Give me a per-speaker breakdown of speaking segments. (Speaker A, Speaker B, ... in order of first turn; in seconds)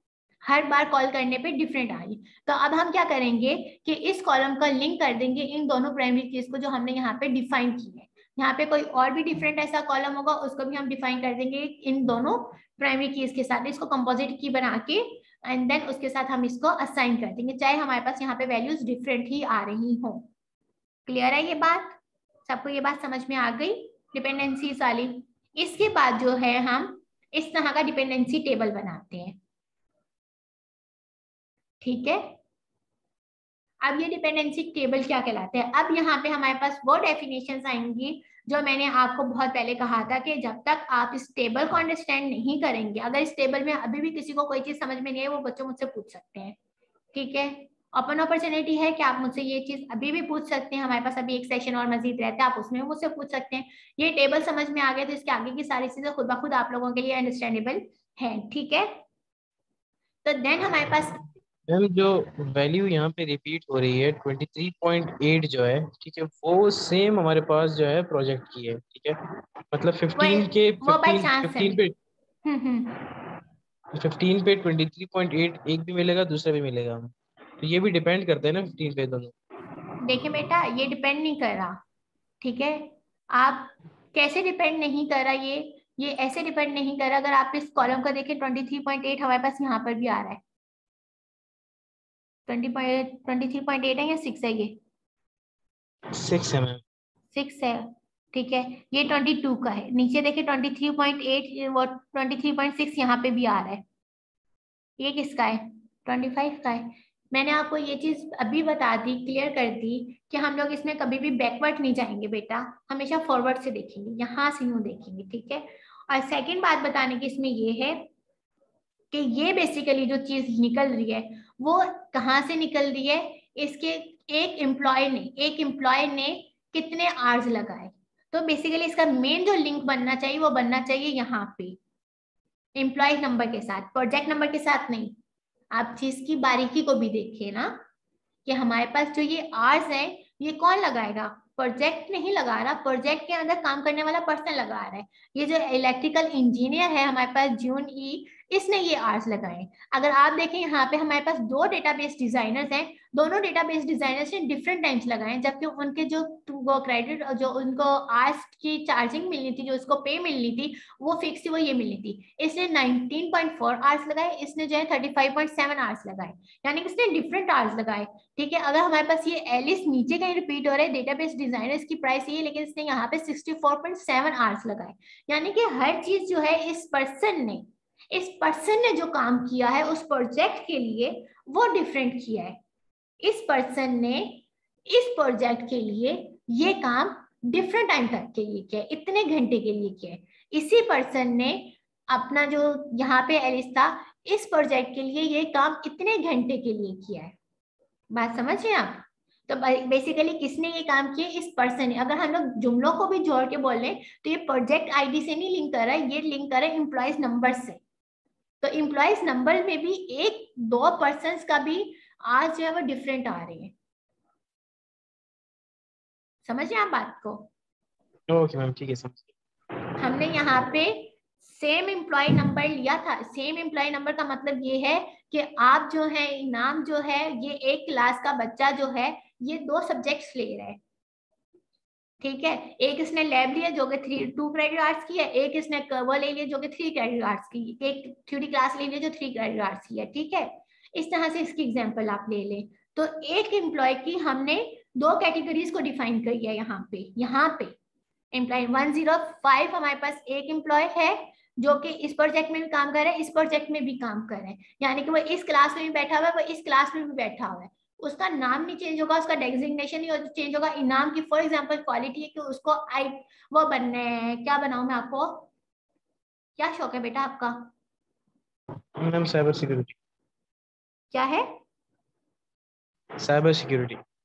Speaker A: 0.5-20.3, 21.1-29.4, 31.8-32.4, 33.8-46.5, 47.1-58.9, 60.2-61.2, 70.2-71.8, 72.5-73.0, 80.0-81.8, 82.4-90.4, 92.5-94.8, 97.3-103.8, 105.0-118.1, 119.1-131.8, 132.8-135.1, 135.7-137.8, 138.5-182.6, 183.2-197.3, 198.1-207.8, 208.6-213.7, 216.5-217.5, 220.0-230.8, 232.2-247.8, 248.3-265.5, 266.6-267.7, 271.1-271.5
Speaker B: 61.7-69.2, 69.7-71.9, 73.9-79.3, 96.1-96.8, 218.3-219.3, 269.0-269.9, 273.2-274.0